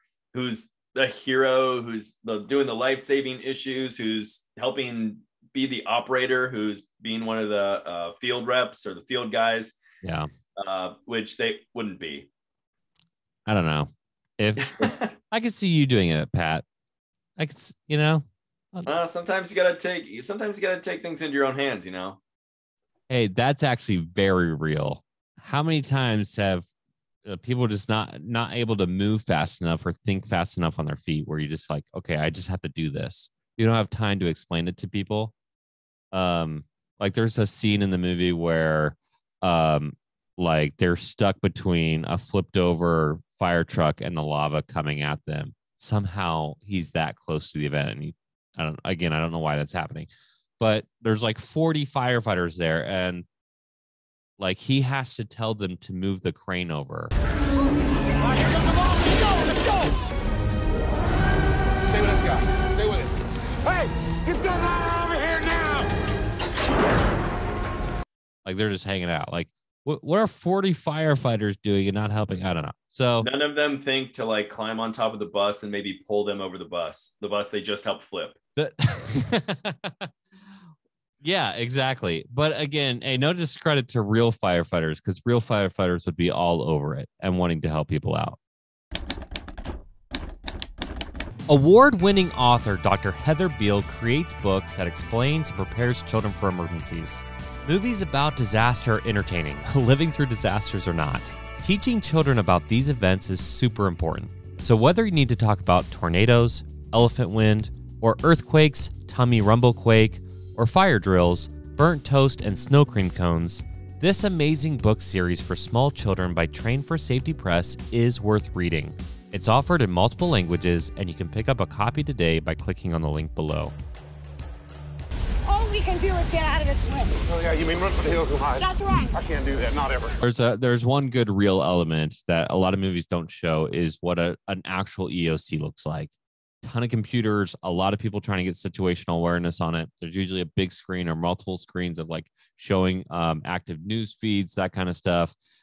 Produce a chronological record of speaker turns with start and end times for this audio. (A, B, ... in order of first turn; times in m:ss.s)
0:00.3-0:09.8 A
0:10.0-0:10.3 B
0:10.6-0:12.3 A
0:13.4-0:16.6 B
0:14.6-0:15.1 A
0:17.4-0:18.9 B
0:18.8-0:22.2 A
0:23.1-0:26.7 B
0:27.2-0:35.3 B
0:36.1-0:50.1 B
0:50.6-0:53.3 B
0:54.4-0:57.1 B
1:08.4-1:13.3 B
1:13.2-1:18.4 A
1:18.6-1:20.1 B
1:21.2-1:28.4 B
1:31.5-2:03.7 B
2:05.4-2:07.2 C
2:07.2-2:10.1 D
2:08.6-2:09.2 C
2:10.2-2:25.4 B